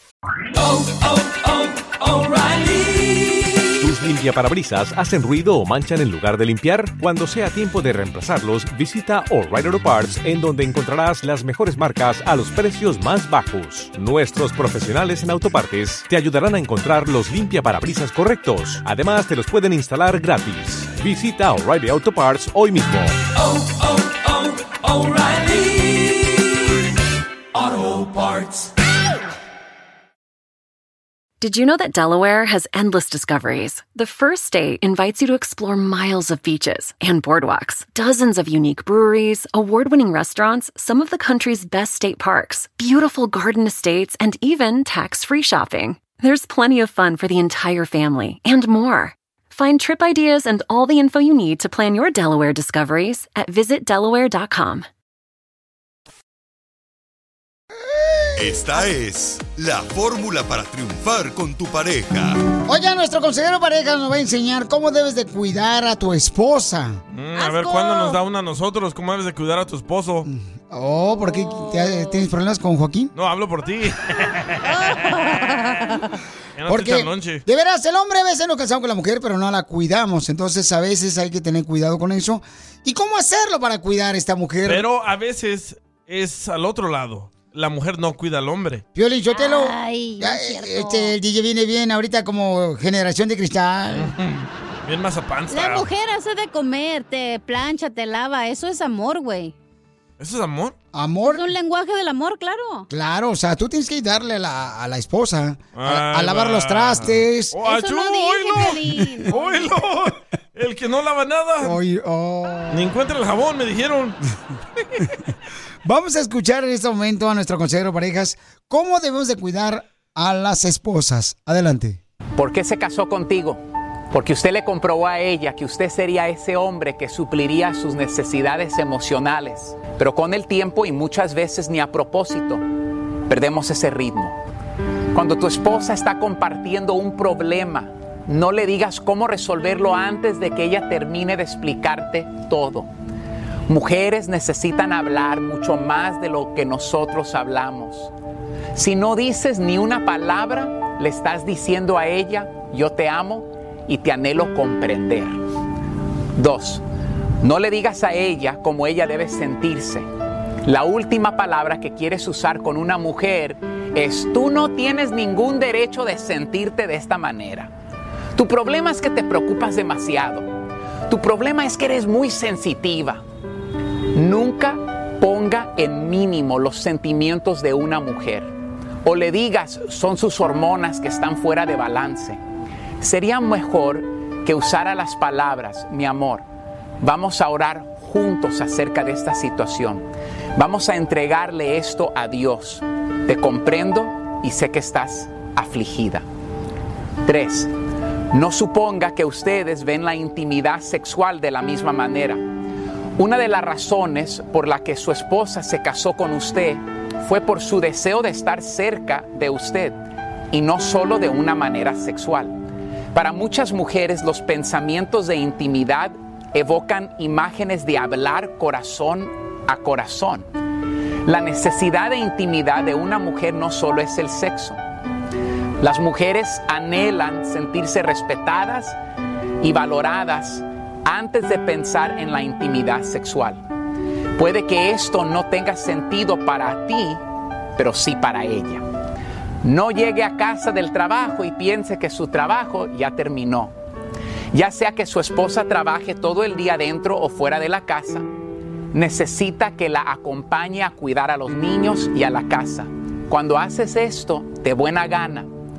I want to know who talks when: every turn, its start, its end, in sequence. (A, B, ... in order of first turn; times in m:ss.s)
0:00.6-0:03.6 A
0:03.8-0:23.2 B
0:23.4-0:26.5 A
0:27.5-0:28.7 A
0:31.4-0:54.9 C
0:58.4-1:02.4 D
1:02.7-1:07.0 E
1:07.1-1:10.3 F
1:07.4-1:08.2 G
1:10.3-1:13.1 E
1:13.2-1:14.7 F
1:14.6-1:16.0 G
1:16.6-1:17.4 F
1:16.7-1:24.8 E
1:24.7-1:28.8 F
1:29.0-1:34.1 E
1:29.3-1:31.2 G
1:33.9-1:35.9 F
1:35.5-1:39.5 G
1:40.2-1:40.8 F
1:40.9-1:41.5 E
1:41.3-1:42.9 G
1:42.9-1:47.6 E
1:45.8-1:51.8 F
1:47.6-1:49.6 G
1:51.6-1:52.9 E
1:52.7-1:54.2 F
1:55.8-2:02.0 E
2:02.4-2:03.6 H
2:04.1-2:12.6 H
2:13.3-2:14.4 H
2:15.1-2:22.9 H
2:23.7-2:28.1 H
2:28.8-2:35.4 H
2:36.4-2:36.8 H
2:37.4-2:40.1 H
2:40.6-2:47.7 H
2:48.4-2:50.5 H
2:51.1-2:53.2 H
2:54.2-2:58.5 H
2:59.0-3:02.4 H
3:03.0-3:06.4 H
3:07.0-3:16.2 H
3:17.2-3:17.7 H
3:18.3-3:22.4 H
3:23.2-3:30.0 H
3:30.5-3:32.6 H
3:33.1-3:40.5 H
3:41.3-3:44.8 H
3:45.8-3:49.0 H
3:49.6-3:53.6 H
3:54.4-3:57.2 H
3:57.8-3:58.8 H
3:59.6-4:03.8 H
4:04.5-4:08.3 H
4:08.9-4:15.5 H